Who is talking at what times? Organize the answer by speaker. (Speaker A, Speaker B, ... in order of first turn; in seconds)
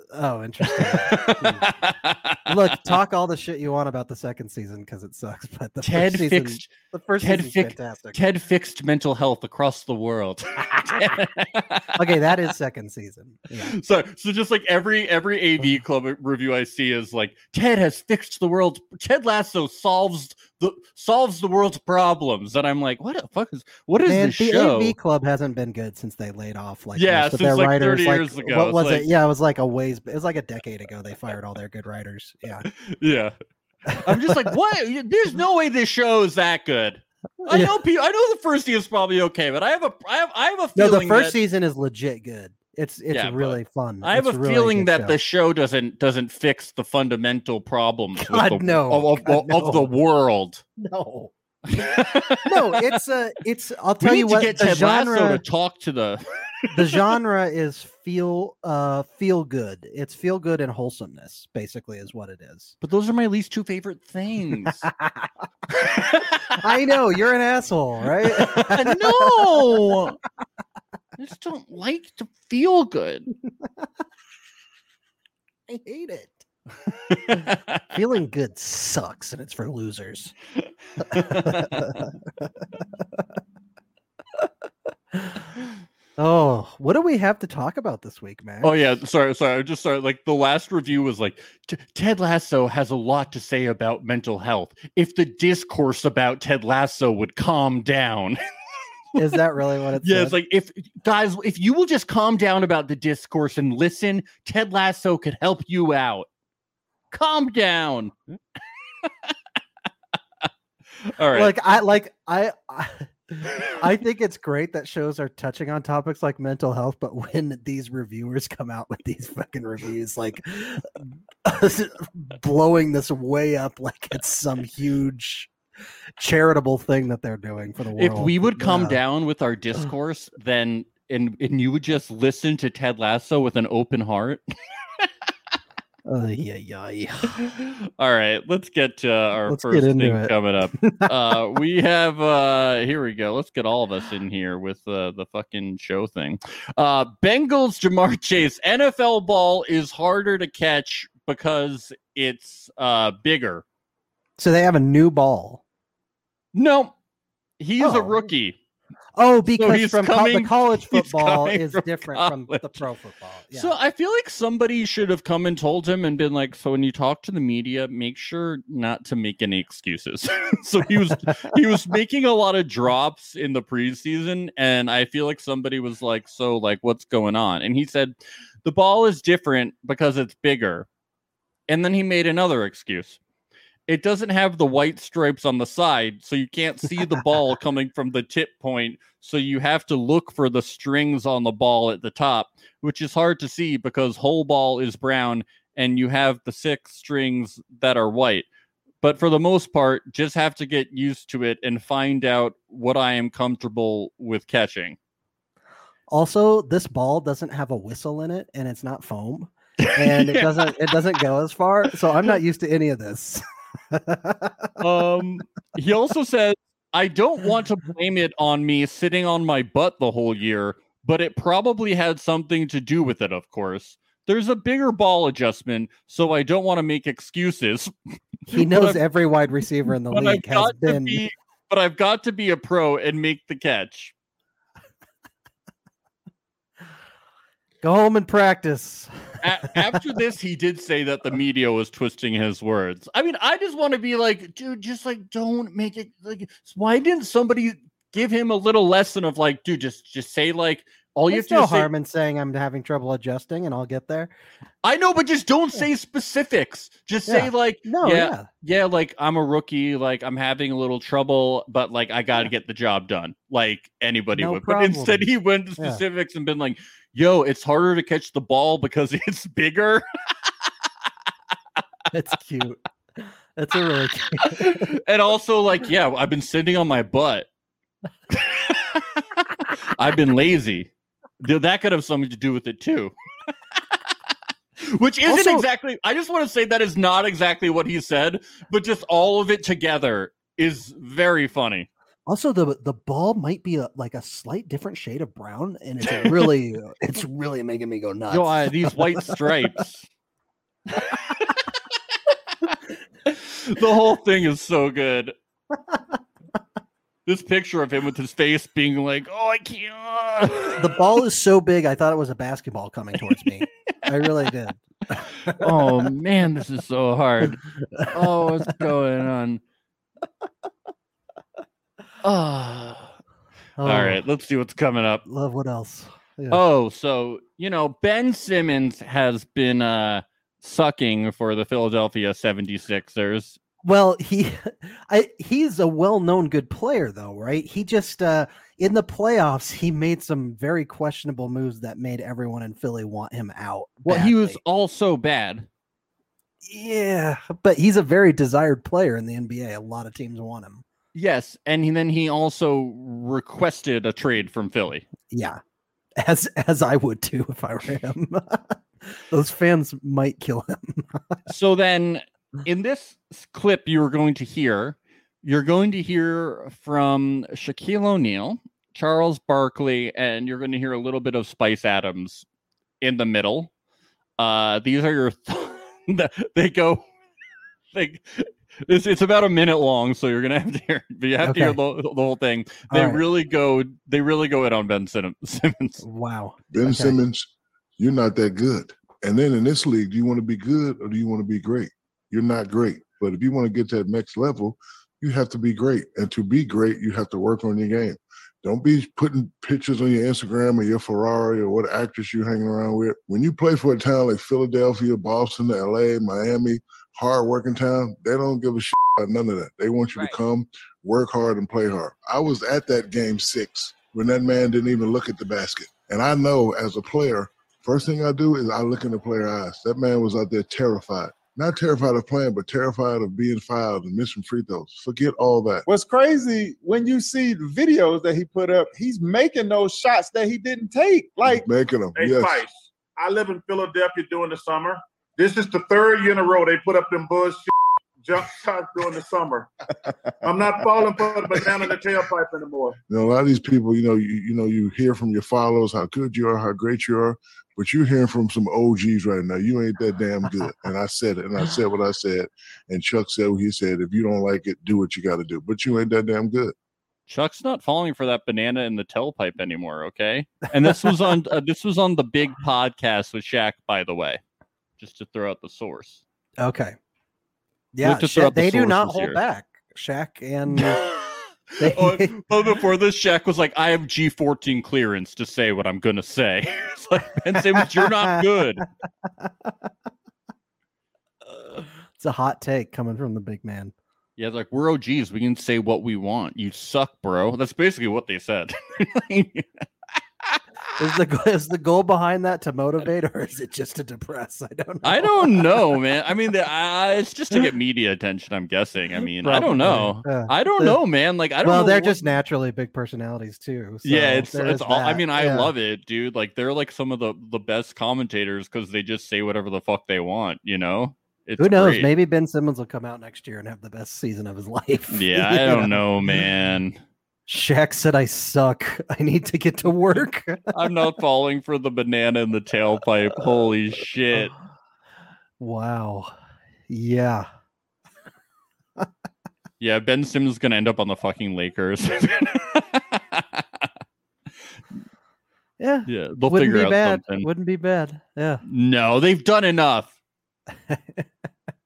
Speaker A: 0.1-1.7, 2.5-8.2, 12.0-13.8, 24.1-32.7, 33.9-34.5, 37.4-37.7, 40.8-45.2, 48.1-49.9, 50.8-51.9, 52.4-55.4, 56.7-62.8, 64.8-65.3, 66.5-69.9, 75.7-76.4, 77.3-80.3, 81.0-83.2, 85.1-85.5, 86.2-88.8, 99.2-100.4, 111.3-125.5, 126.2-129.0, 136.1-137.4, 139.5-141.4, 154.4-155.6, 157.8-158.2, 159.2-163.8, 206.1-214.8, 228.5-231.2, 237.8-239.1, 239.6-240.0, 251.3-254.3, 257.3-258.5, 264.4-265.3, 265.8-266.0, 272.1-274.9, 285.3-285.6, 292.3-299.7, 310.7-315.9, 317.9-318.4, 323.8-324.2, 325.3-326.6, 333.8-344.6, 346.6-350.8, 355.3-355.6, 356.2-361.4, 381.4-381.8, 382.9-383.2, 386.0-387.2, 460.8-461.4, 466.6-467.0, 467.9-471.0, 471.8-472.4, 477.5-478.4, 479.4-479.9, 482.2-483.9, 491.0-496.0, 499.4-501.0, 501.6-505.7, 511.6-516.4, 517.5-520.7, 525.6-526.3, 526.9-527.5, 535.8-538.6, 540.9-541.2
Speaker B: 0.7-2.8, 5.8-12.2, 13.6-25.0, 26.9-29.1, 32.6-33.3, 34.0-41.4, 43.1-50.6, 51.7-53.0, 54.0-57.0, 62.8-64.8, 65.8-66.6, 68.2-70.2, 71.2-73.3, 77.1-77.6, 81.0-82.0, 88.6-98.4, 100.0-106.3, 107.1-108.1, 109.0-109.3, 111.0-111.5, 128.0-134.4, 137.4-153.6, 156.5-156.9, 157.6-158.6, 159.6-162.8, 163.5-180.9, 181.7-183.2, 183.9-198.5, 199.0-205.0, 209.8-211.2, 214.8-227.9, 228.5-229.0, 230.1-234.1, 239.4-251.9, 254.8-270.1, 274.4-277.5, 278.3-280.9, 281.4-283.1, 284.8-291.9, 298.3-300.1, 303.3-305.3, 307.3-310.9, 315.4-319.6, 322.2-323.1, 323.9-325.2, 326.5-333.6, 344.1-345.7, 351.1-355.1, 361.5-372.4, 373.0-373.7, 374.4-377.1, 377.9-386.0, 457.3-464.4, 465.0-466.2, 468.0-469.4, 470.7-478.9, 484.4-489.7, 495.0-502.2, 504.0-512.1, 515.1-517.0, 520.7-524.5, 529.8-533.9, 536.1-537.5, 538.7-540.1
Speaker C: 386.7-425.9, 431.4-432.6, 443.1-456.7
Speaker D: 425.9-431.7
Speaker E: 432.2-437.7, 438.2-439.7, 440.4-443.0